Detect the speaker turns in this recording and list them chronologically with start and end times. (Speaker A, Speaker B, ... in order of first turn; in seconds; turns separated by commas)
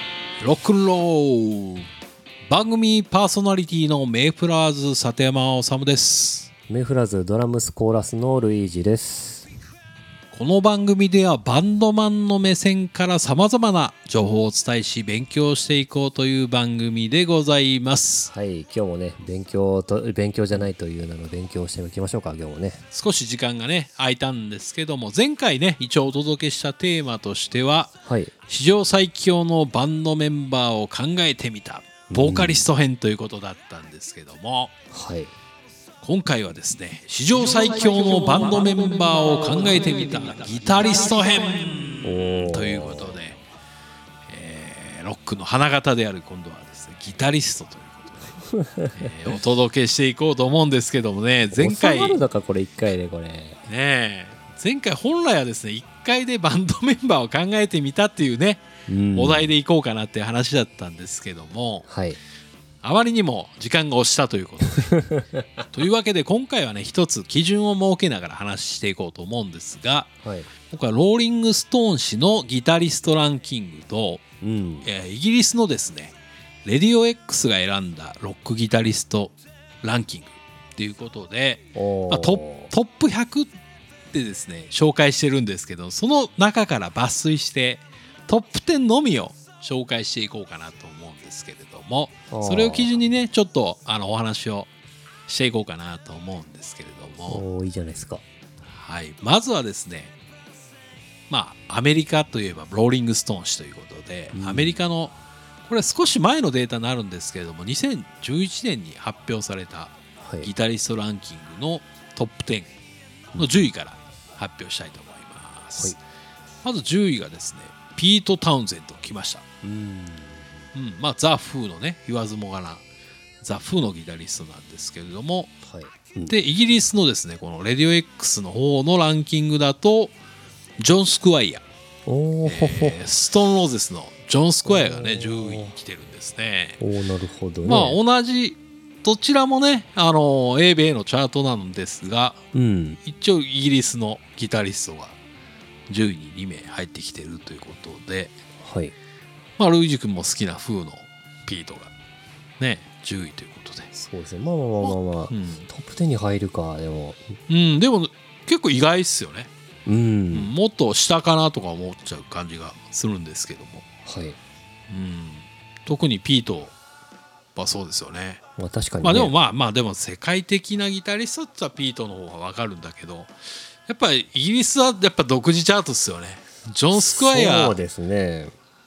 Speaker A: 0.4-1.9, Speaker A: 2.5-6.5, Speaker B: 6.7-9.5, Speaker A: 10.3-18.3, Speaker B: 18.3-22.8, Speaker A: 22.9-27.9, Speaker B: 28.1-28.3, Speaker A: 28.5-34.7, Speaker B: 32.1-32.7, Speaker B: 34.9-35.3, Speaker A: 36.0-43.4, Speaker B: 42.0-43.2, Speaker A: 44.3-48.3, Speaker B: 48.5-49.0, Speaker A: 48.9-52.2, Speaker B: 51.5-53.6, Speaker A: 53.6-58.6, Speaker B: 58.9-59.5, Speaker A: 59.1-61.9, Speaker B: 61.9-62.2, Speaker A: 62.8-65.1, Speaker A: 65.7-70.1, Speaker B: 70.2-70.5, Speaker A: 70.7-74.2, Speaker B: 74.4-74.9, Speaker A: 74.8-83.5, Speaker B: 81.7-82.7, Speaker A: 84.1-94.7, Speaker B: 92.3-92.9, Speaker A: 95.3-97.4, Speaker B: 97.3-98.2, Speaker A: 98.7-100.1, Speaker A: 101.3-105.1, Speaker B: 104.3-104.8, Speaker A: 105.7-112.7, Speaker B: 110.2-110.5, Speaker A: 113.4-116.0, Speaker A: 116.6-119.4, Speaker B: 119.6-120.5, Speaker A: 120.7-122.8, Speaker A: 123.4-125.5, Speaker B: 125.6-126.3, Speaker A: 126.3-130.1, Speaker A: 130.8-131.6, Speaker B: 132.1-133.0, Speaker A: 132.4-136.8, Speaker B: 134.6-135.7, Speaker B: 136.8-138.0, Speaker A: 137.7-142.4, Speaker B: 142.5-143.0, Speaker A: 143.0-145.2, Speaker A: 145.9-148.3, Speaker B: 148.6-148.9, Speaker A: 149.6-151.9, Speaker A: 152.6-153.9, Speaker B: 153.9-157.3, Speaker A: 154.8-155.7, Speaker A: 157.5-159.5, Speaker B: 159.8-160.5, Speaker A: 160.3-163.8, Speaker B: 164.0-164.4, Speaker A: 164.9-166.7, Speaker A: 167.6-168.4, Speaker B: 168.6-169.3, Speaker A: 169.0-173.3, Speaker A: 173.9-177.8, Speaker B: 176.9-178.5